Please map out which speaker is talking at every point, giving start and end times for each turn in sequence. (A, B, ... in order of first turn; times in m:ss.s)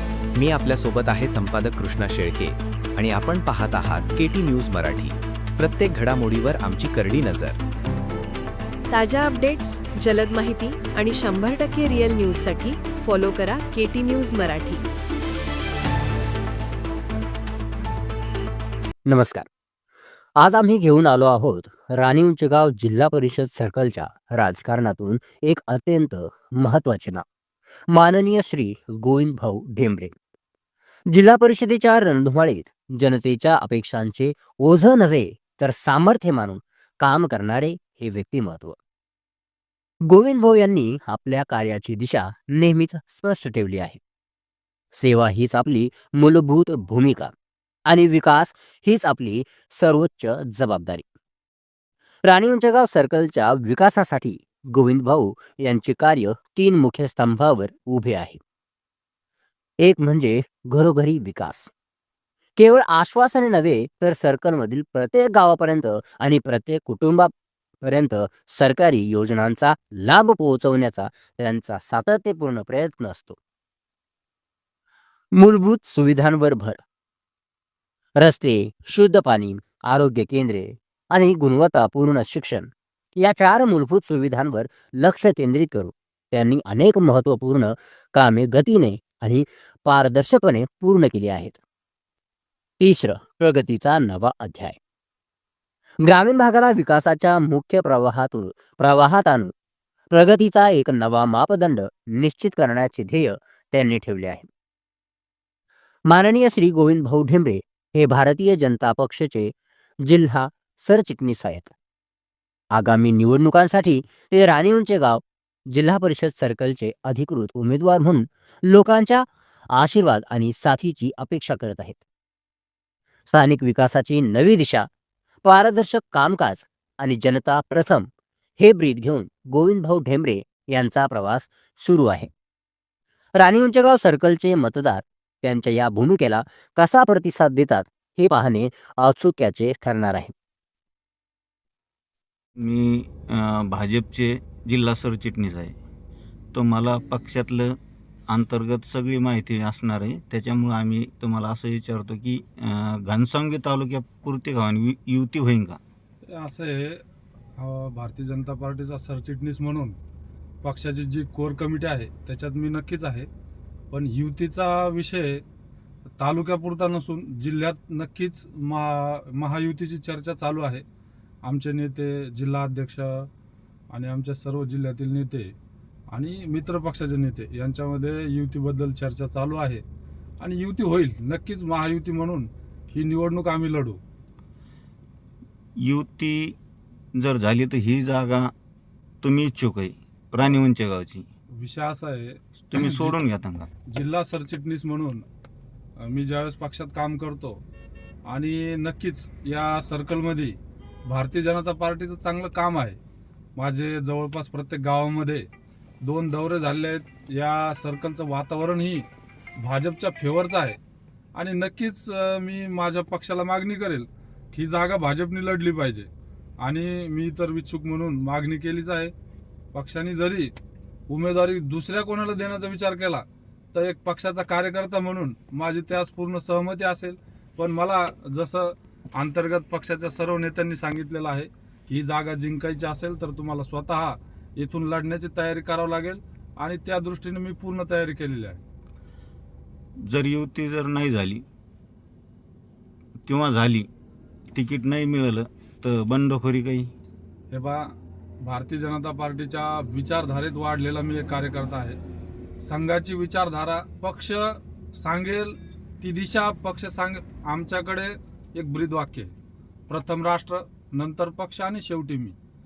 0:00.4-0:07.6 A
0:08.9-0:14.8 B
0:19.0-0:19.4 C
0:20.4-0:27.2 C
0:27.9-0:30.1 C
0:31.1-0:38.8 C
0:40.1-0:44.0 C
0:44.9-0:47.3 C
0:47.9-0:51.0 C
0:52.2-0:58.4 C
0:59.8-1:01.7 C
1:02.6-1:07.3 C
1:07.8-1:13.4 C
1:15.4-1:16.8 C
1:18.2-1:31.6 C
1:32.8-1:34.8 C
1:36.0-1:39.5 C
1:40.1-1:44.5 C
1:46.1-1:49.5 C
1:50.0-1:51.7 C
1:52.7-2:02.0 C
2:03.3-2:04.9 C
2:05.4-2:08.1 C
2:08.6-2:12.3 C
2:13.4-2:20.3 C
2:22.6-2:25.8 D
2:26.5-2:27.7 D
2:28.3-2:35.8 D
2:36.3-2:37.0 E
2:37.6-2:40.0 E
2:40.6-2:43.3 E
2:43.9-2:45.4 E
2:46.2-2:50.8 E
2:51.4-2:53.3 E
2:53.9-2:55.6 E
2:56.1-2:59.8 E
3:00.4-3:04.0 E
3:05.8-3:06.6 D
3:07.2-3:08.5 D
3:09.2-3:11.2 D
3:11.6-3:13.2 E
3:12.7-3:13.7 D
3:13.9-3:15.2 E
3:16.0-3:17.6 E
3:18.2-3:23.0 E
3:23.6-3:25.5 E
3:26.0-3:30.8 E
3:31.3-3:36.1 E
3:36.6-3:39.1 E
3:39.7-3:40.5 E
3:41.1-3:58.6 E
4:00.1-4:01.4 D
4:03.3-4:03.9 D
4:04.5-4:06.9 D
4:07.5-4:12.0 E
4:12.6-4:19.3 E
4:19.9-4:22.4 E